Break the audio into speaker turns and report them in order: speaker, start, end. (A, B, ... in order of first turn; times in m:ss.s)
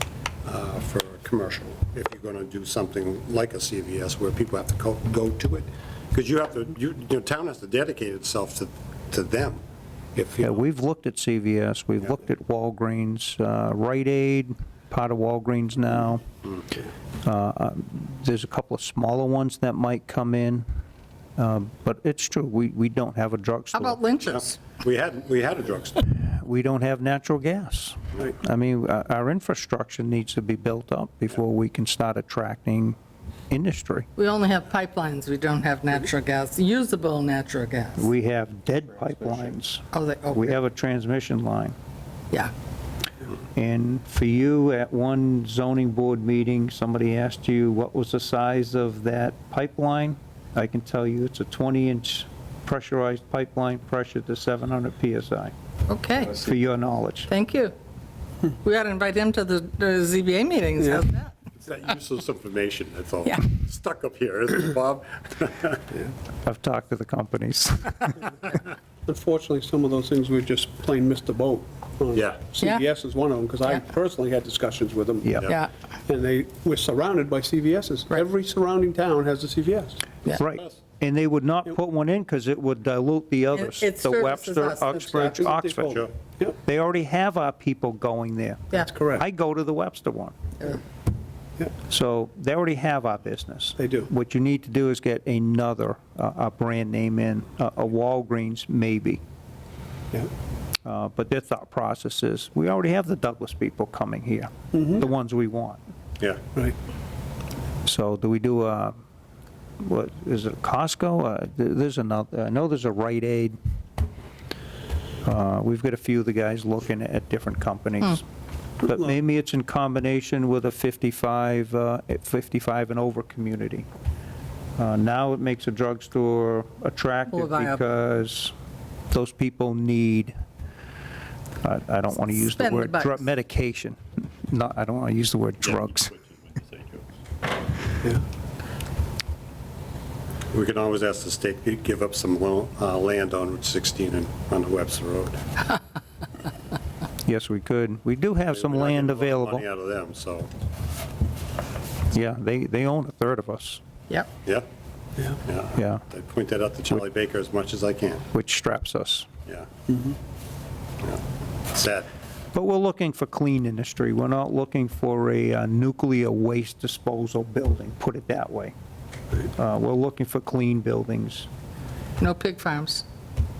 0:00.4-0:09.6 A
0:10.2-0:10.6 A
0:10.4-0:16.2 B
0:17.2-0:20.6 B
0:21.4-0:24.0 B
0:23.7-0:24.6 C
0:24.3-0:26.0 A
0:26.0-0:33.0 B
0:33.5-0:34.1 B
0:34.2-0:38.1 C
0:38.0-0:41.7 B
0:39.9-0:40.6 C
0:43.6-0:55.5 B
0:55.9-0:56.4 C
0:56.3-0:57.3 B
0:57.3-0:57.7 C
0:58.5-1:01.3 C
1:01.6-1:05.9 A
1:06.4-1:08.3 B
1:09.0-1:15.4 D
1:12.1-1:12.4 A
1:15.2-1:15.5 B
1:15.4-1:15.7 C
1:16.0-1:20.1 D
1:20.4-1:20.8 A
1:20.4-1:26.0 B
1:23.5-1:25.6 C
1:25.2-1:26.5 D
1:26.6-1:30.4 B
1:28.9-1:29.2 D
1:31.8-1:39.2 B
1:33.8-1:34.1 D
1:40.8-1:45.8 B
1:44.7-1:45.0 D
1:47.8-1:49.0 B
1:49.8-1:53.6 B
1:55.2-1:58.2 B
1:58.8-2:03.9 B
2:04.8-2:08.5 B
2:07.3-2:07.8 C
2:09.1-2:10.3 B
2:11.6-2:16.1 B
2:12.4-2:13.2 C
2:15.7-2:17.0 A
2:20.5-2:25.4 A
2:27.2-2:29.6 B
2:28.5-2:30.5 A
2:32.1-2:33.8 B
2:35.3-2:38.2 A
2:35.8-2:36.0 B
2:38.3-2:39.3 B
2:41.0-2:42.1 A
2:42.5-2:48.7 B
2:49.5-2:51.5 B
2:52.2-2:53.0 C